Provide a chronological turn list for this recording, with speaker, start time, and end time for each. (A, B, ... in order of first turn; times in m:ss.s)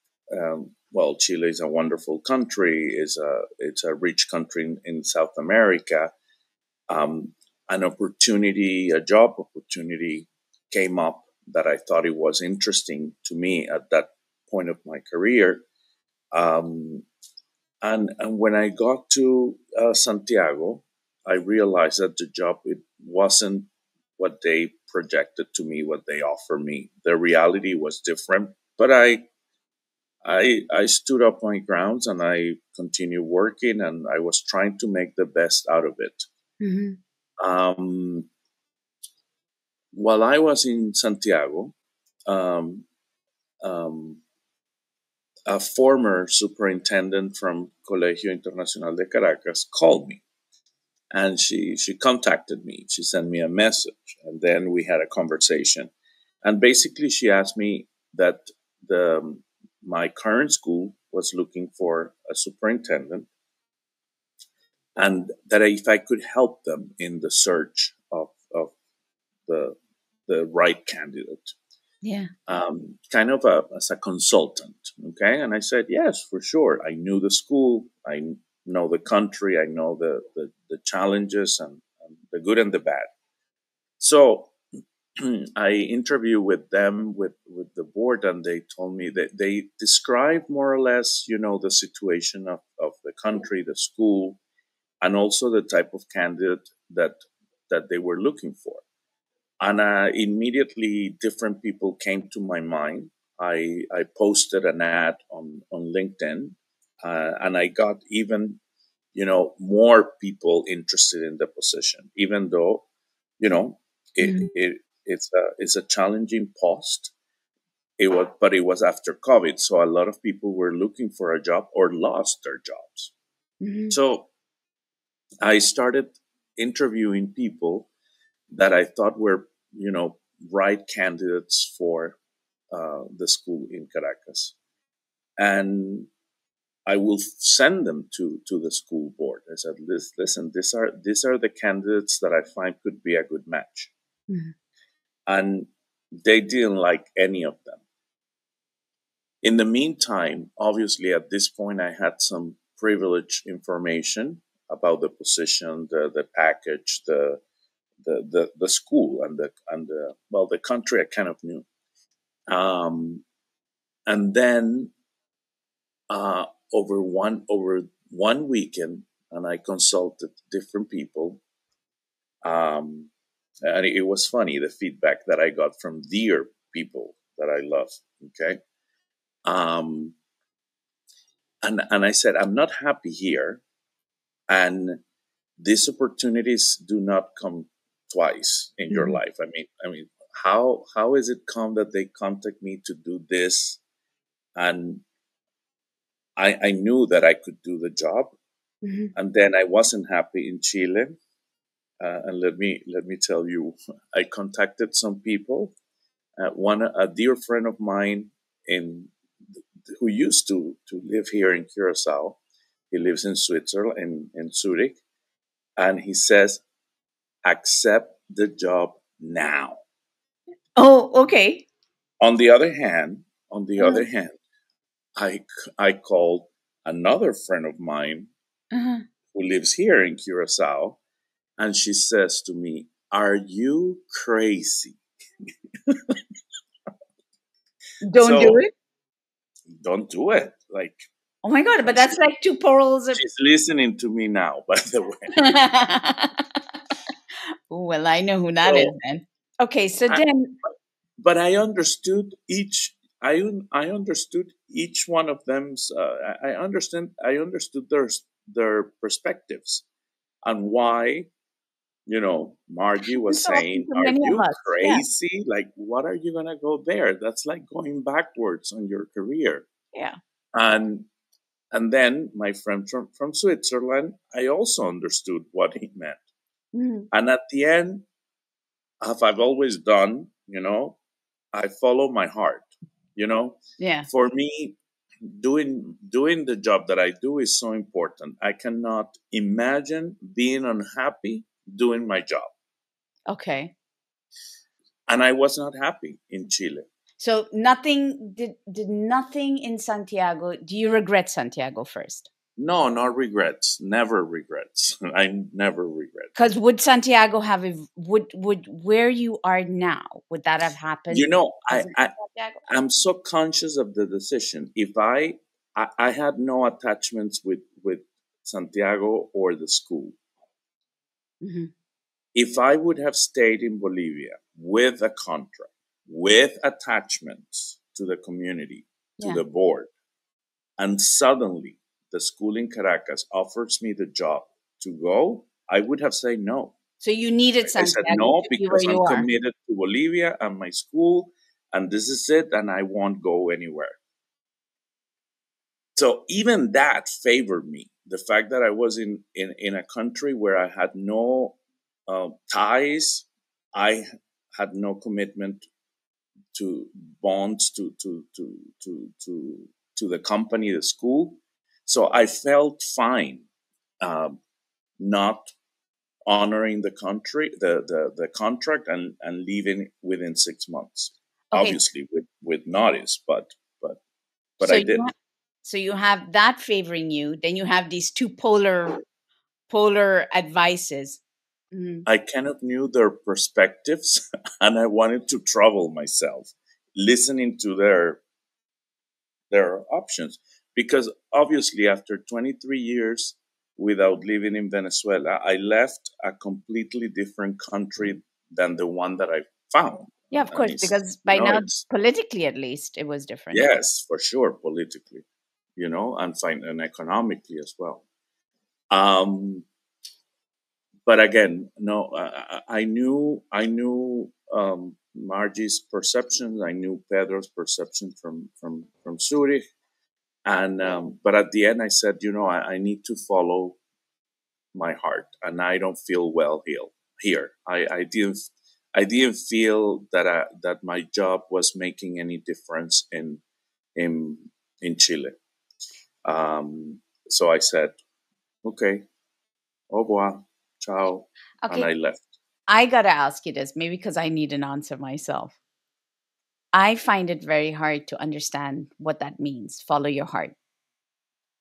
0:00.3-0:06.1 A
0:06.9-0:15.7 A
0:16.3-0:17.1 A
0:17.8-0:29.2 A
0:30.2-0:36.2 A
0:36.6-0:37.0 B
0:37.4-0:38.3 A
0:39.9-0:41.8 A
0:42.3-0:42.9 A
0:43.6-0:44.2 A
0:45.5-0:50.2 A
0:51.1-0:55.9 A
0:56.4-1:03.3 A
1:05.0-1:08.7 A
1:09.5-1:09.8 A
1:10.3-1:11.6 A
1:12.0-1:12.3 B
1:12.5-1:23.1 A
1:24.0-1:24.5 A
1:25.2-1:34.4 A
1:35.0-1:37.2 A
1:37.7-1:38.8 A
1:39.6-1:48.6 A
1:49.1-1:52.8 A
1:53.4-1:57.1 A
1:54.2-1:54.5 B
1:58.0-2:03.1 A
2:03.6-2:04.0 B
2:03.9-2:04.3 A
2:05.4-2:07.9 A
2:08.5-2:12.2 A
2:12.7-2:14.6 A
2:15.4-2:16.1 A
2:16.9-2:23.9 A
2:25.3-2:27.8 A
2:29.4-2:37.4 A
2:38.0-2:41.7 A
2:42.5-2:43.2 A
2:44.1-2:44.9 A
2:46.1-2:51.4 A
2:52.4-2:53.1 A
2:53.6-2:58.6 A
2:59.5-3:00.2 A
3:01.6-3:03.6 A
3:04.5-3:05.0 A
3:05.6-3:13.8 A
3:08.9-3:09.2 B
3:14.6-3:15.0 A
3:16.4-3:18.3 A
3:18.8-3:19.1 B
3:19.2-3:21.2 A
3:22.0-3:25.8 A
3:26.4-3:29.1 A
3:29.9-3:32.4 A
3:32.9-3:35.0 A
3:35.8-3:36.6 A
3:37.4-3:39.8 A
3:40.8-3:41.7 B
3:42.2-3:44.4 A
3:43.8-3:44.1 B
3:45.2-3:48.3 A
3:48.7-3:49.0 B
3:49.3-3:51.0 A
3:51.6-3:55.0 A
3:55.9-3:56.2 A
3:58.0-3:58.7 B
3:58.2-3:58.6 A
3:59.7-4:01.0 A
4:01.4-4:03.2 B
4:01.8-4:02.2 A
4:03.2-4:05.4 A
4:05.3-4:06.5 B
4:07.7-4:10.6 B
4:08.6-4:08.9 A
4:11.2-4:19.8 A
4:20.4-4:21.3 A
4:22.1-4:29.7 A
4:23.2-4:25.0 B
4:30.5-4:31.1 A
4:31.7-4:36.2 A
4:36.7-4:37.1 B
4:37.1-4:38.1 A
4:39.0-4:41.0 A
4:41.5-4:52.5 A
4:43.8-4:44.1 B
4:53.3-4:53.7 B
4:55.1-4:56.9 A
4:57.2-5:02.3 B
5:02.6-5:06.3 A
5:06.4-5:12.6 B
5:11.1-5:12.1 A
5:12.7-5:20.2 A
5:21.4-5:21.7 B
5:22.4-5:29.9 A
5:30.8-5:36.8 A
5:37.0-5:39.3 B
5:37.6-5:44.0 A
5:46.0-5:51.6 A
5:52.1-5:54.0 A
5:54.6-5:55.7 A
5:56.5-6:03.5 A
6:04.0-6:04.4 A
6:05.0-6:05.5 A
6:06.3-6:14.0 A
6:11.5-6:11.8 B
6:14.6-6:15.1 A
6:14.6-6:15.1 B
6:15.6-6:19.0 B
6:19.7-6:21.2 B
6:21.7-6:22.1 B
6:22.1-6:28.2 A
6:29.5-6:41.8 A
6:40.3-6:43.8 B
6:43.5-6:45.2 A
6:45.8-6:48.0 A
6:48.9-6:49.7 A
6:51.1-6:59.6 A
7:00.5-7:03.8 A
7:04.7-7:08.4 A
7:08.9-7:13.4 A
7:14.0-7:15.4 A
7:16.2-7:18.0 A
7:18.6-7:19.0 A
7:19.9-7:22.3 A
7:21.6-7:21.9 B
7:22.7-7:25.6 B
7:26.7-7:30.6 B